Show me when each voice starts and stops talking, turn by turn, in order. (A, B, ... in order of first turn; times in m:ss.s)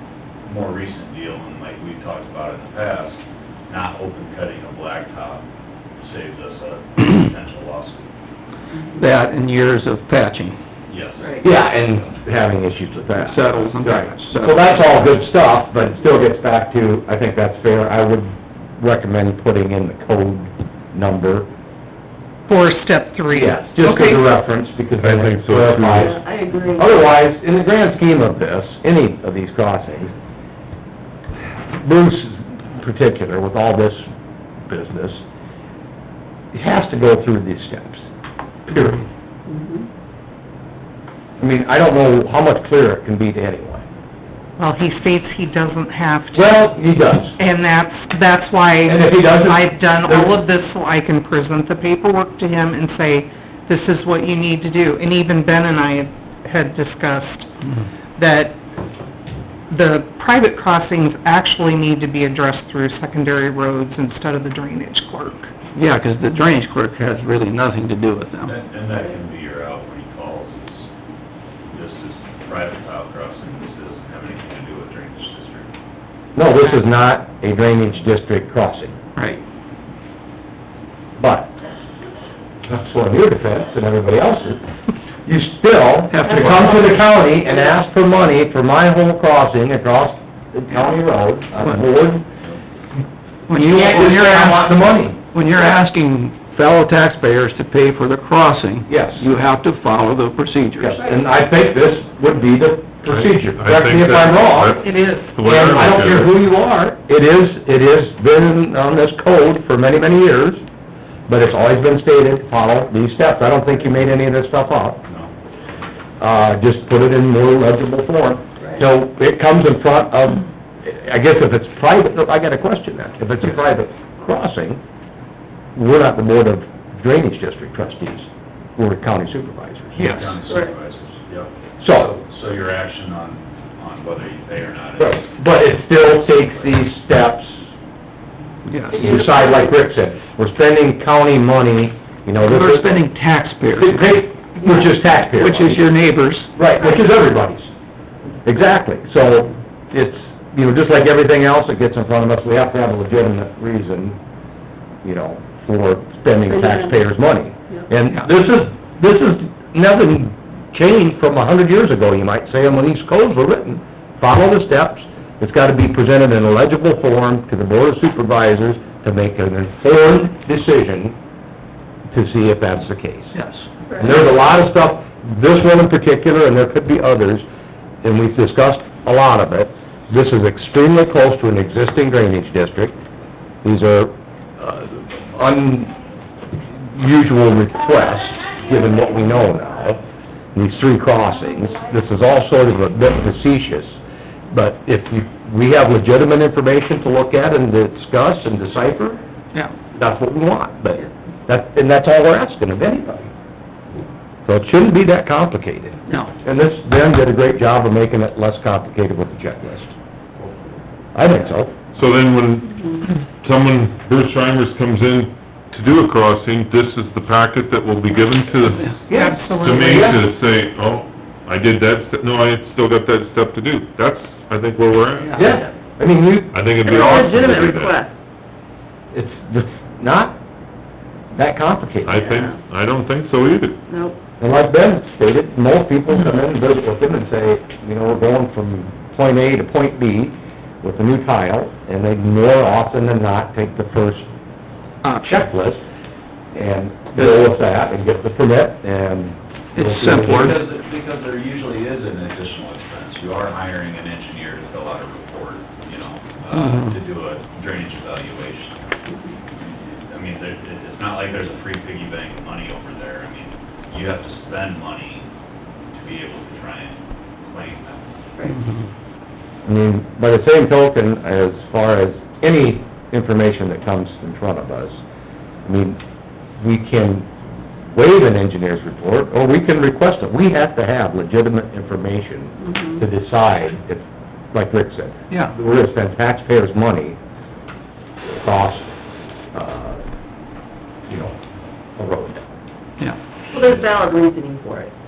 0:00.5-0:03.2 A
0:03.7-0:05.4 A
0:06.0-0:08.1 A
0:09.0-0:10.6 B
0:10.9-0:11.4 A
0:11.4-0:21.5 C
0:13.2-0:14.7 B
0:22.5-0:24.2 D
0:23.3-0:26.2 C
0:25.0-0:26.1 E
0:25.9-0:27.1 F
0:26.8-0:30.1 C
0:31.7-0:34.0 C
0:34.7-0:35.2 C
0:36.5-0:38.0 C
0:38.7-0:39.0 C
0:39.5-0:39.8 F
0:41.4-0:43.8 C
0:44.6-0:46.7 D
0:46.3-0:47.4 C
0:47.4-0:57.5 D
0:48.9-0:50.3 C
0:58.2-0:58.6 D
0:59.7-1:05.5 D
1:05.7-1:08.5 B
1:08.4-1:10.9 A
1:11.7-1:15.7 A
1:16.4-1:18.9 C
1:19.2-1:19.4 B
1:21.2-1:21.5 C
1:22.6-1:24.6 C
1:25.3-1:32.3 C
1:26.1-1:26.7 B
1:26.5-1:26.9 F
1:33.5-1:34.6 B
1:33.5-1:35.2 C
1:35.3-1:41.0 B
1:38.9-1:39.2 C
1:40.8-1:44.8 C
1:43.1-1:46.4 E
1:44.8-1:45.4 D
1:45.4-1:50.6 C
1:51.3-1:55.0 C
1:55.1-1:55.3 A
1:56.2-2:04.8 C
2:05.8-2:10.0 C
2:10.0-2:10.4 B
2:10.0-2:15.3 A
2:11.8-2:12.2 C
2:15.0-2:17.6 C
2:18.7-2:19.1 B
2:18.9-2:22.9 C
2:18.9-2:19.7 F
2:22.5-2:26.5 B
2:23.7-2:25.8 C
2:26.6-2:27.7 C
2:28.4-2:34.2 C
2:35.0-2:51.2 C
2:36.5-2:37.0 F
2:52.1-2:53.4 C
2:53.4-2:53.6 B
2:53.9-2:54.2 F
2:54.0-2:57.4 C
2:58.0-3:03.0 C
3:03.6-3:06.0 C
3:06.8-3:10.0 C
3:10.6-3:14.0 C
3:14.5-3:19.2 C
3:19.9-3:23.3 C
3:24.5-3:29.9 C
3:31.1-3:31.7 C
3:31.9-3:45.4 E
3:39.1-3:40.2 C
3:39.1-3:40.1 D
3:45.3-3:46.6 C
3:45.4-3:45.6 F
3:46.5-3:48.0 E
3:46.8-3:48.1 F
3:49.1-3:50.4 C
3:51.3-3:52.2 C
3:52.0-3:53.8 E
3:52.2-3:52.5 F
3:53.9-3:54.2 F
3:54.4-4:04.3 C
4:05.0-4:05.4 B
4:05.2-4:05.8 C
4:06.5-4:10.6 C
4:09.8-4:10.6 B
4:10.2-4:19.0 A
4:19.5-4:25.3 A
4:25.9-4:28.1 A
4:29.6-4:35.0 C
4:35.6-4:36.0 C
4:36.6-4:37.3 C
4:37.9-4:47.2 C
4:48.2-4:48.9 C
4:49.5-4:50.0 C
4:51.1-4:51.4 C
4:52.0-4:52.4 C
4:53.5-4:54.9 F